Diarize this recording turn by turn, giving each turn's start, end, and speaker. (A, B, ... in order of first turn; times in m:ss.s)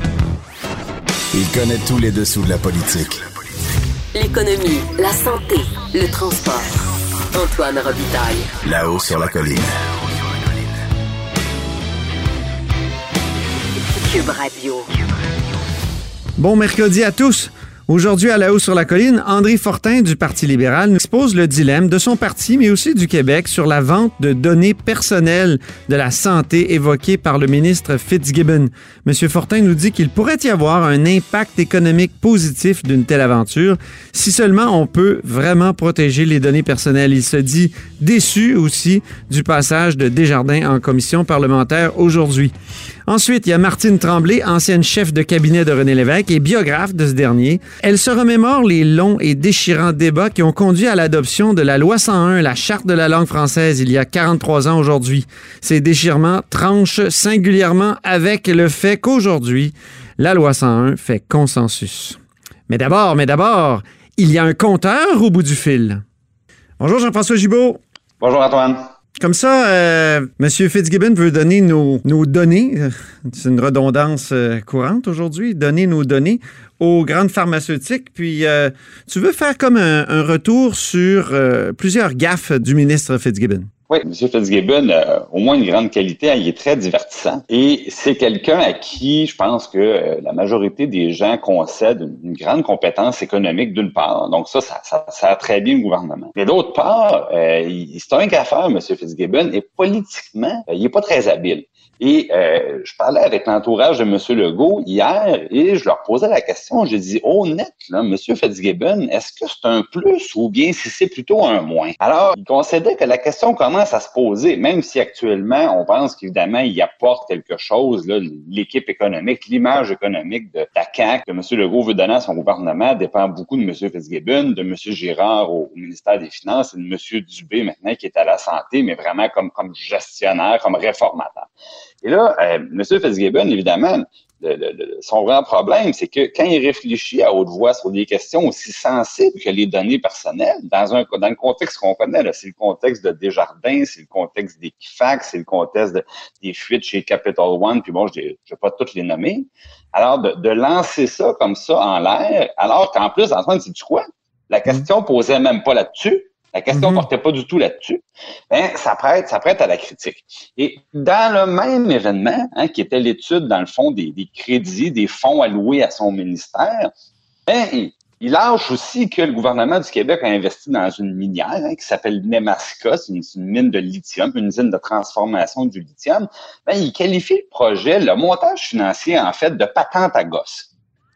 0:01.3-0:03.2 A
0:04.1-0:06.7 B
0:07.3-0:08.5 B
0:08.6-0:09.7 A
0:14.0-0:14.8 B
0:16.4-0:42.5 C
0:43.1-1:02.2 C
1:02.7-1:06.0 C
1:06.8-1:07.8 C
1:08.2-1:08.9 D
1:09.2-1:23.7 C
1:23.9-2:11.5 D
2:12.0-2:46.9 D
2:36.7-2:37.0 C
2:47.5-3:00.7 D